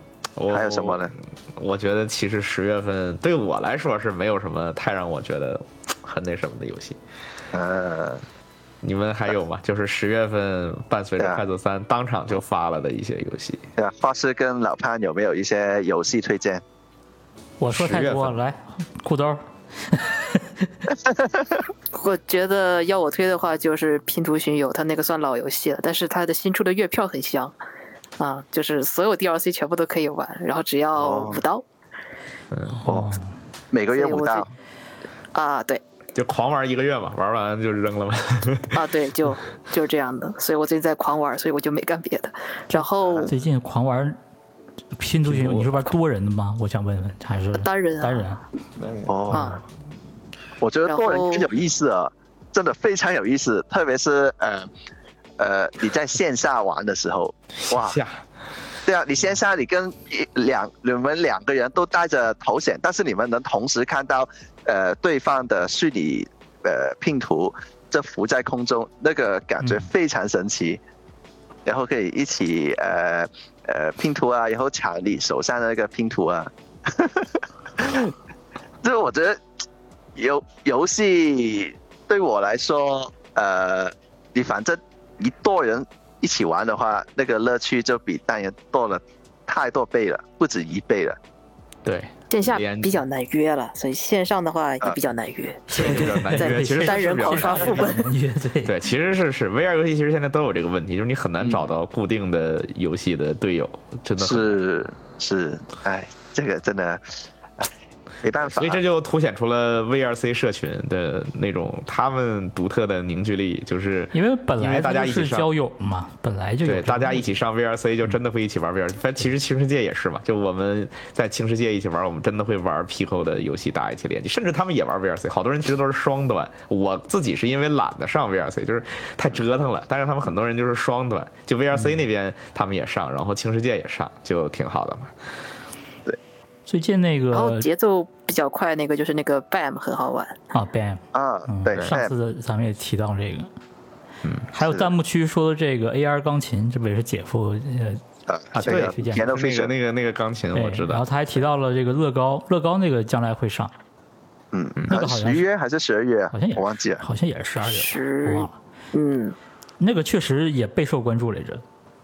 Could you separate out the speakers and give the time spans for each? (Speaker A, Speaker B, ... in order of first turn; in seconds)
Speaker A: 0.3-7.0, 8.8-13.7, 17.7-18.4, 32.5-32.8, 36.1-38.8, 45.2-45.9, 48.8-49.4, 57.6-58.2, 91.8-93.0, 95.7-97.9, 98.6-104.6, 108.4-115.5, 116.6-135.1, 148.6-151.1
Speaker B: 0.5-1.1, 7.5-8.2, 13.8-16.6, 31.0-31.4, 32.9-33.1, 33.7-34.5, 43.0-43.3, 49.1-49.5, 50.6-54.7, 55.4-58.0, 58.9-70.8, 71.7-78.1, 78.8-79.4, 80.2-91.2, 104.2-107.1, 108.2-108.8, 141.1-142.1, 144.6-144.9, 148.3-149.7, 154.5-157.0
Speaker C: 17.6-20.7, 32.7-33.3, 43.3-44.2, 45.0-48.4, 69.6-69.9, 95.7-98.8, 114.1-117.3, 136.7-137.7, 140.5-143.5, 144.5-148.0, 148.5-149.3, 150.5-153.7, 154.9-155.4, 156.3-158.5, 159.8-161.6
Speaker D: 21.9-27.5, 28.2-31.6, 33.9-34.5, 35.3-35.8, 38.7-43.3, 47.6-48.3, 49.3-49.6, 50.9-51.5, 92.3-98.1, 137.3-140.4, 157.6-159.3